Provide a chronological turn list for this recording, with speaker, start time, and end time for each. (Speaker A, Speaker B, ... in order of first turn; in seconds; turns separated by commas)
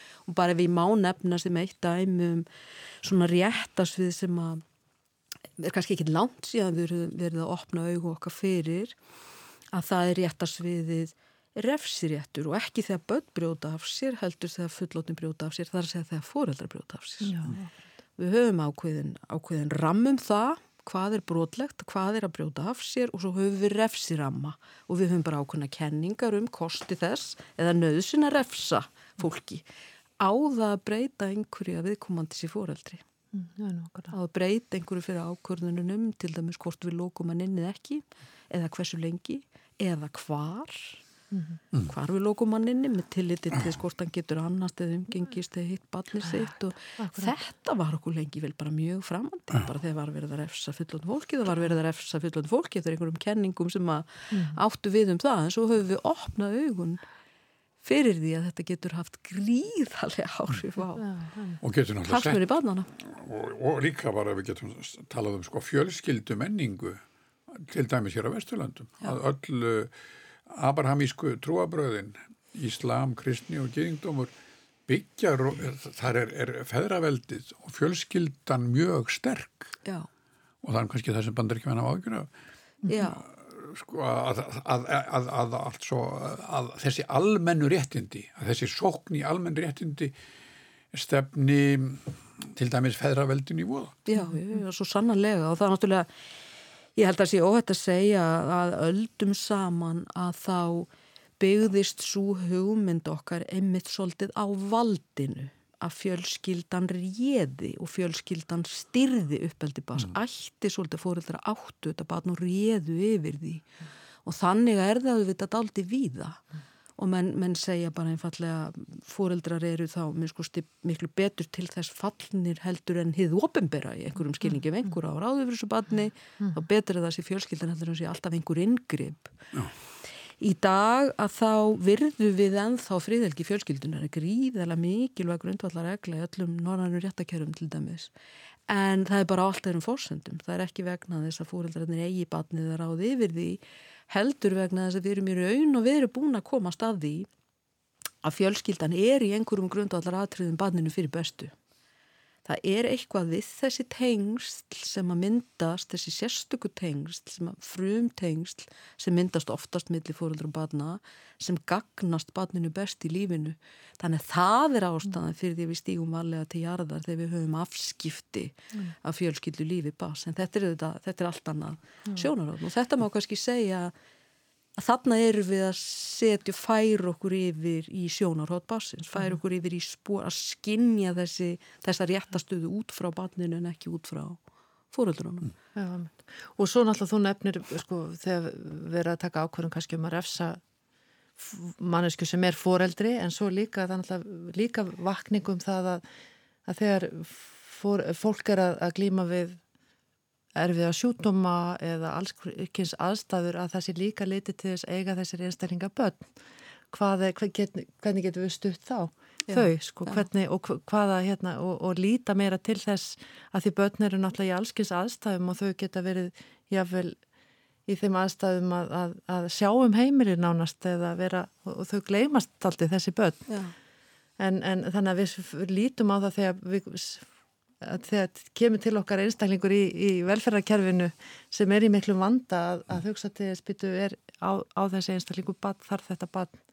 Speaker A: 0.3-2.5, Speaker A: 3.0-4.6, Speaker A: 5.6-8.9, Speaker A: 9.7-17.6, Speaker B: 17.2-17.7, Speaker A: 18.2-29.6, Speaker A: 30.2-33.0, Speaker B: 33.3-34.1, Speaker A: 34.1-41.0, Speaker B: 41.3-41.6, Speaker A: 41.9-57.0, Speaker B: 47.0-47.3, Speaker B: 54.3-54.6, Speaker A: 57.8-61.1, Speaker B: 61.0-61.6, Speaker C: 61.6-62.4, Speaker A: 62.1-62.9, Speaker C: 63.0-69.9, Speaker C: 70.5-74.3, Speaker C: 74.9-79.7, Speaker C: 80.6-82.3, Speaker A: 82.9-83.2, Speaker C: 83.2-90.1, Speaker C: 90.9-94.0, Speaker A: 94.0-96.1, Speaker A: 97.0-113.7, Speaker A: 114.2-116.4, Speaker A: 117.0-129.3, Speaker A: 130.4-138.1, Speaker A: 138.7-147.3, Speaker A: 148.2-151.5, Speaker A: 152.4-173.9, Speaker A: 174.8-184.4, Speaker A: 184.9-185.5, Speaker B: 185.7-190.6, Speaker B: 191.4-196.0, Speaker B: 196.6-199.6, Speaker B: 200.6-206.3, Speaker B: 206.9-217.2, Speaker B: 217.9-223.5, Speaker A: 223.5-223.7, Speaker B: 224.4-227.3, Speaker B: 227.8-236.6